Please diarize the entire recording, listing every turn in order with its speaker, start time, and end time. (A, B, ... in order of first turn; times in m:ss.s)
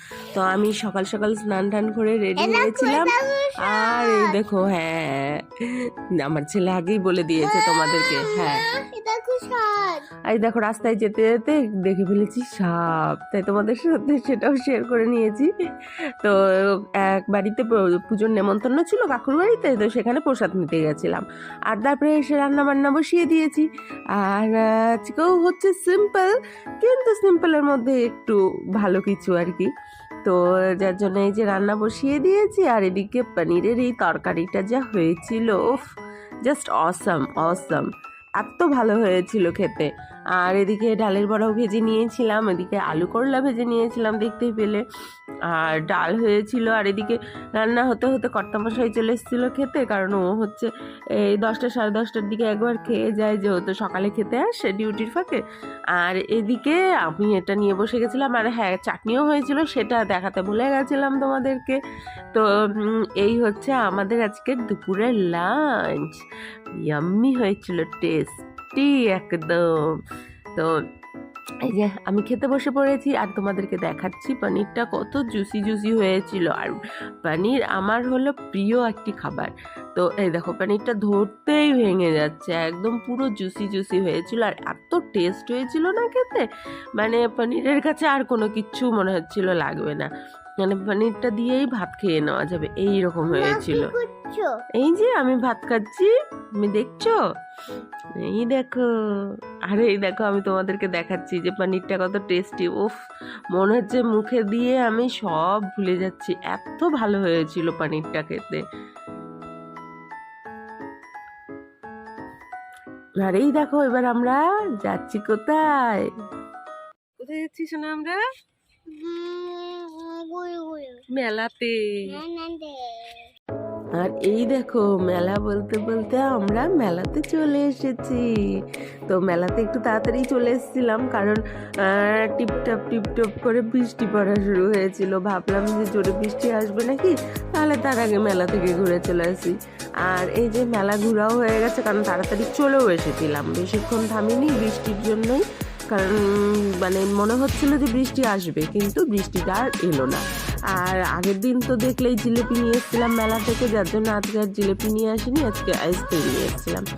0:00.3-0:03.1 A
0:02.4-0:04.4 B
0:03.6-0:05.4 A
0:06.2-0:08.6 A
0:07.4-0:10.0 B
0:10.3-0:15.5 A
0:17.0-0:23.6 A
0:24.2-0:29.7 A
0:30.2-0:35.9 A
0:36.4-0:37.9 A
0:38.4-0:44.8 A
0:45.5-0:50.7 A
0:51.2-0:55.4 A
0:56.0-1:01.8 A
1:02.3-1:06.2 A
1:06.8-1:10.0 A
1:11.6-1:26.4 A
1:27.0-1:30.1 A
1:30.6-1:33.9 A
1:33.2-1:34.6 B
1:34.8-1:37.2 A
1:38.2-1:38.8 A
1:39.7-1:43.0 A
1:43.5-1:48.6 A
1:53.2-1:56.1 A
1:57.2-1:58.2 A
1:58.9-2:01.0 B
2:01.1-2:01.9 A
2:02.1-2:03.2 B
2:04.0-2:08.2 A
2:09.1-2:19.5 A
2:20.0-2:26.2 A
2:26.8-2:36.8 A